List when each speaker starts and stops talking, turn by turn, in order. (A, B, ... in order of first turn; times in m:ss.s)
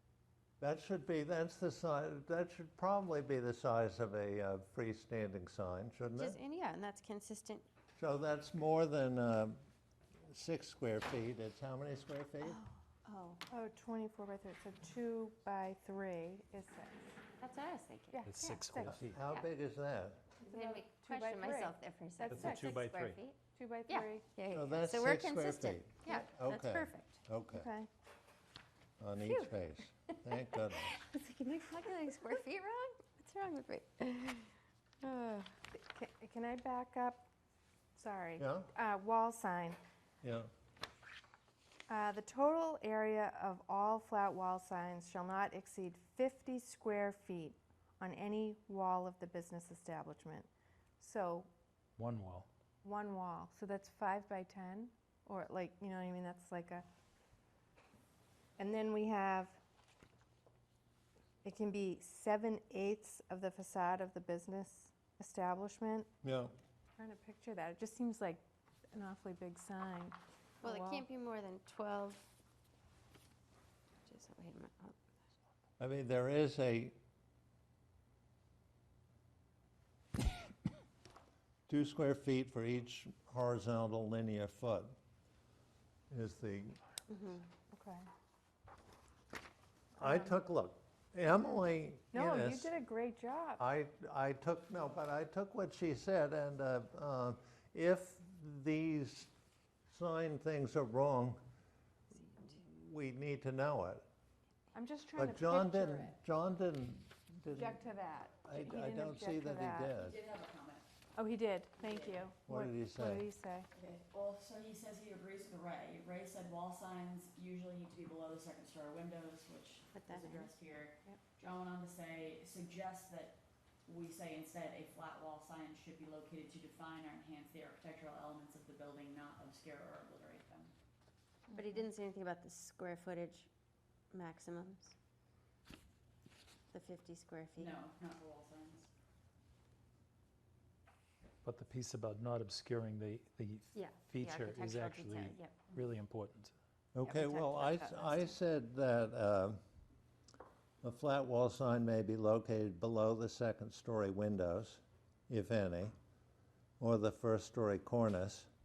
0:00.6-0:06.4 A
0:06.1-0:07.6 B
0:08.0-0:09.6 A
0:10.3-0:12.6 A
0:12.4-0:13.4 B
0:13.5-0:17.2 C
0:17.4-0:18.2 B
0:18.1-0:19.0 C
0:18.2-0:19.1 D
0:18.8-0:20.2 A
0:20.4-0:22.8 C
0:20.4-0:27.2 B
0:22.3-0:23.2 D
0:23.5-0:24.2 C
0:24.5-0:27.7 A
0:27.5-0:27.9 C
0:29.0-0:31.0 A
0:29.2-0:34.5 B
0:35.0-0:35.5 B
0:35.7-0:37.3 C
0:38.0-0:39.8 C
0:38.4-0:38.7 A
0:40.2-0:40.5 A
0:41.9-0:50.5 C
0:51.0-0:51.5 C
0:52.0-0:52.5 D
0:52.8-0:56.8 C
0:58.6-0:59.6 C
1:01.4-1:06.1 C
1:06.2-1:06.6 A
1:07.0-1:11.0 C
1:10.6-1:12.3 B
1:14.0-1:15.2 B
1:15.8-1:17.0 A
1:21.7-1:24.9 A
1:26.1-1:26.8 A
1:27.1-1:27.4 B
1:27.7-1:28.0 C
1:30.0-1:32.8 A
1:30.0-1:30.3 C
1:32.1-1:33.6 C
1:33.6-1:39.3 A
1:39.9-1:41.4 A
1:42.4-1:44.0 A
1:44.7-1:46.2 C
1:45.2-1:47.8 A
1:47.5-1:49.9 C
1:48.4-1:50.2 A
1:50.0-1:50.8 E
1:51.2-1:53.7 C
1:51.8-1:52.2 E
1:52.4-1:53.3 A
1:53.7-2:03.3 E
1:59.9-2:01.2 B
2:03.8-2:10.7 E
2:11.5-2:13.5 B
2:14.1-2:14.9 B
2:16.7-2:17.8 B
2:17.6-2:18.9 E
2:21.4-2:26.5 D
2:23.7-2:25.6 B
2:26.9-2:29.6 A
2:27.0-2:28.3 B
2:30.8-2:35.9 A
2:36.8-2:38.5 A